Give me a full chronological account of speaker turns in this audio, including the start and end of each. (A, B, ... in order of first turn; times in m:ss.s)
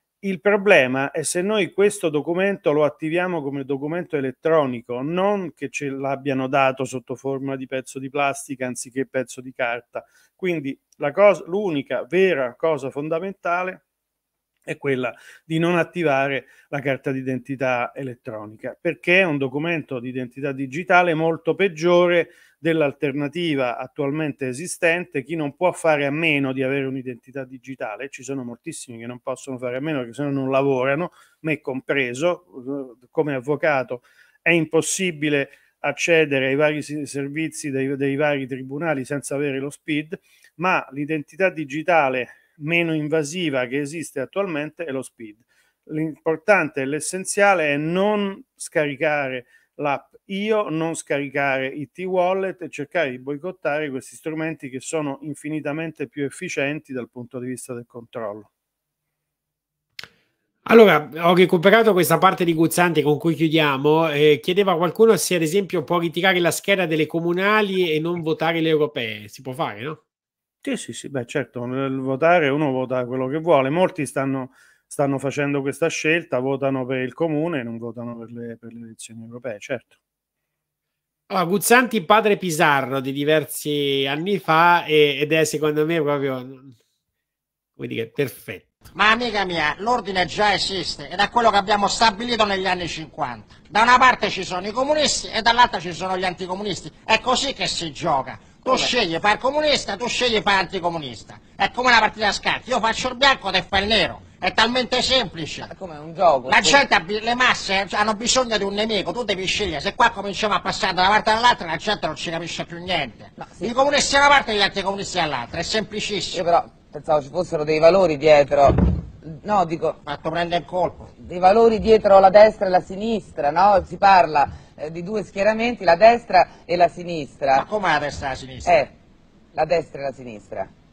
0:00.2-0:13.8 A
0:14.7-0:58.5 A
1:00.7-1:10.0 B
1:10.6-1:20.0 A
1:21.3-1:26.7 B
1:27.8-1:28.8 B
1:29.0-1:45.7 C
1:45.7-1:46.8 D
1:46.4-1:56.4 C
1:53.4-1:53.7 D
1:56.3-2:00.0 D
2:00.0-2:01.1 C
2:01.2-2:07.6 D
2:07.6-2:08.9 C
2:08.7-2:08.9 D
2:09.5-2:10.7 D